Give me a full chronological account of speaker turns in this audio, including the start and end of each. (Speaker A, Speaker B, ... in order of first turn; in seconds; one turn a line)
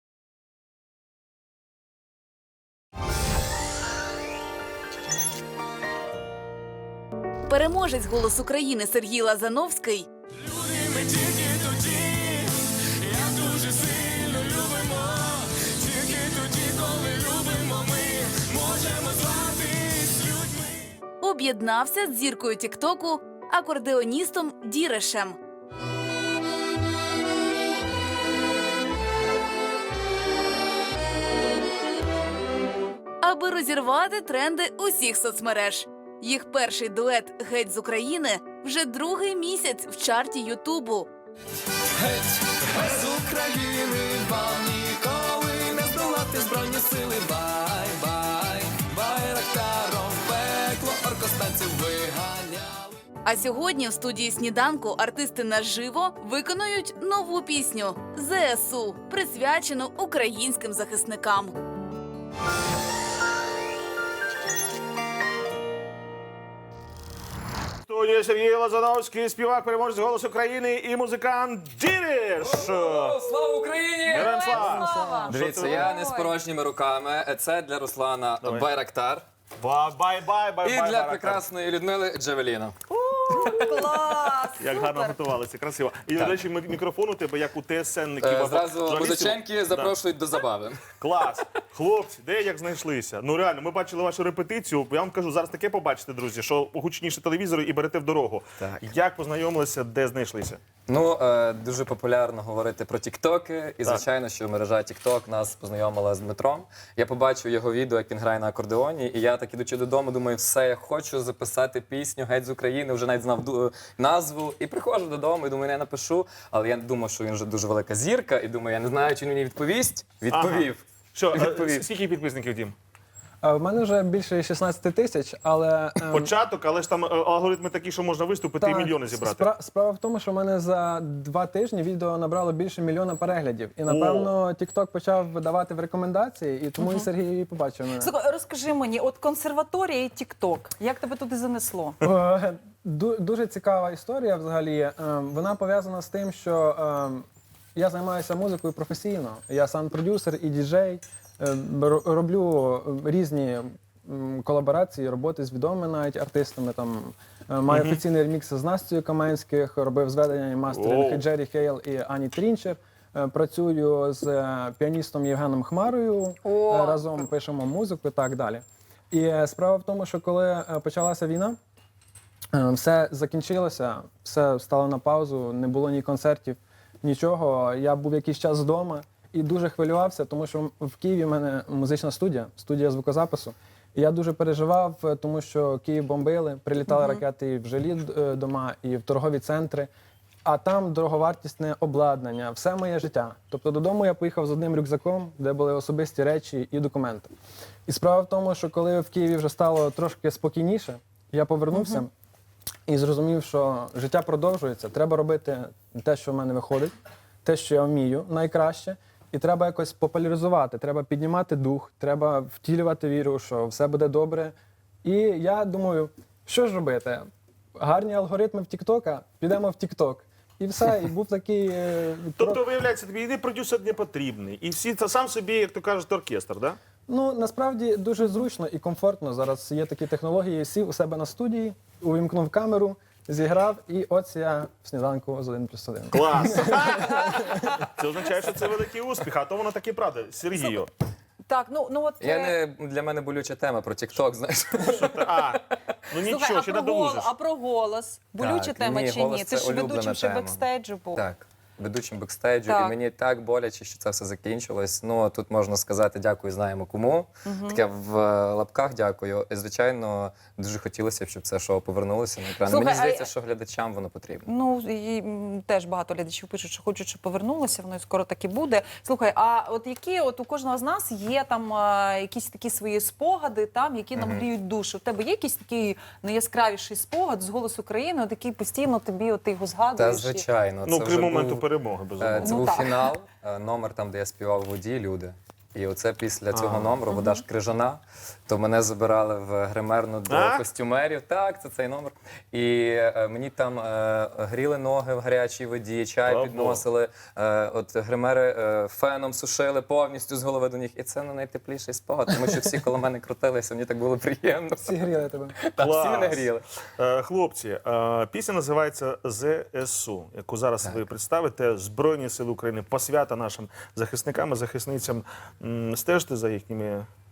Speaker A: 7.5-10.1
Speaker B: 10.5-20.5
Speaker A: 21.2-25.4
Speaker A: 33.2-41.1
Speaker B: 42.0-53.0
Speaker A: 53.2-61.5
Speaker C: 67.9-73.2
Speaker D: 72.4-79.2
Speaker C: 74.1-75.9
Speaker E: 74.1-76.3
Speaker C: 78.4-78.7
Speaker C: 79.6-81.4
Speaker D: 80.6-82.7
Speaker E: 82.9-85.2
Speaker D: 83.4-83.7
Speaker C: 84.6-89.9
Speaker D: 88.2-90.9
Speaker C: 90.9-100.6
Speaker D: 98.6-98.8
Speaker D: 100.9-121.8
Speaker C: 120.3-122.7
Speaker F: 123.4-126.3
Speaker C: 126.1-129.5
Speaker F: 128.6-138.1
Speaker C: 133.9-134.3
Speaker E: 136.8-137.1
Speaker E: 138.0-142.0
Speaker F: 142.0-147.2
Speaker F: 147.8-171.6
Speaker C: 157.7-158.0
Speaker C: 160.7-161.2
Speaker E: 166.4-167.2
Speaker F: 172.6-189.9
Speaker E: 186.9-187.2
Speaker F: 190.4-197.3
Speaker F: 197.9-202.1
Speaker E: 201.7-202.0
Speaker F: 202.9-206.9
Speaker F: 207.4-214.5
Speaker F: 215.0-217.2
Speaker F: 217.8-222.6
Speaker C: 222.4-226.8
Speaker F: 227.1-237.8
Speaker C: 236.1-237.4
Speaker C: 238.0-240.9
Speaker E: 240.5-240.8
Speaker E: 241.4-242.5
Speaker D: 242.2-245.6
Speaker C: 244.9-247.3
Speaker E: 246.2-251.2
Speaker D: 248.4-250.6
Speaker D: 251.1-264.5
Speaker E: 252.7-253.0
Speaker E: 257.4-257.8
Speaker E: 262.6-263.3
Speaker E: 264.4-280.4
Speaker D: 274.1-274.4
Speaker D: 279.9-281.6
Speaker C: 280.8-282.9
Speaker D: 282.2-306.6
Speaker E: 282.4-283.0
Speaker C: 286.5-287.0
Speaker E: 287.1-287.4
Speaker C: 290.3-290.7
Speaker C: 296.2-296.8
Speaker F: 304.8-305.6
Speaker C: 305.8-317.1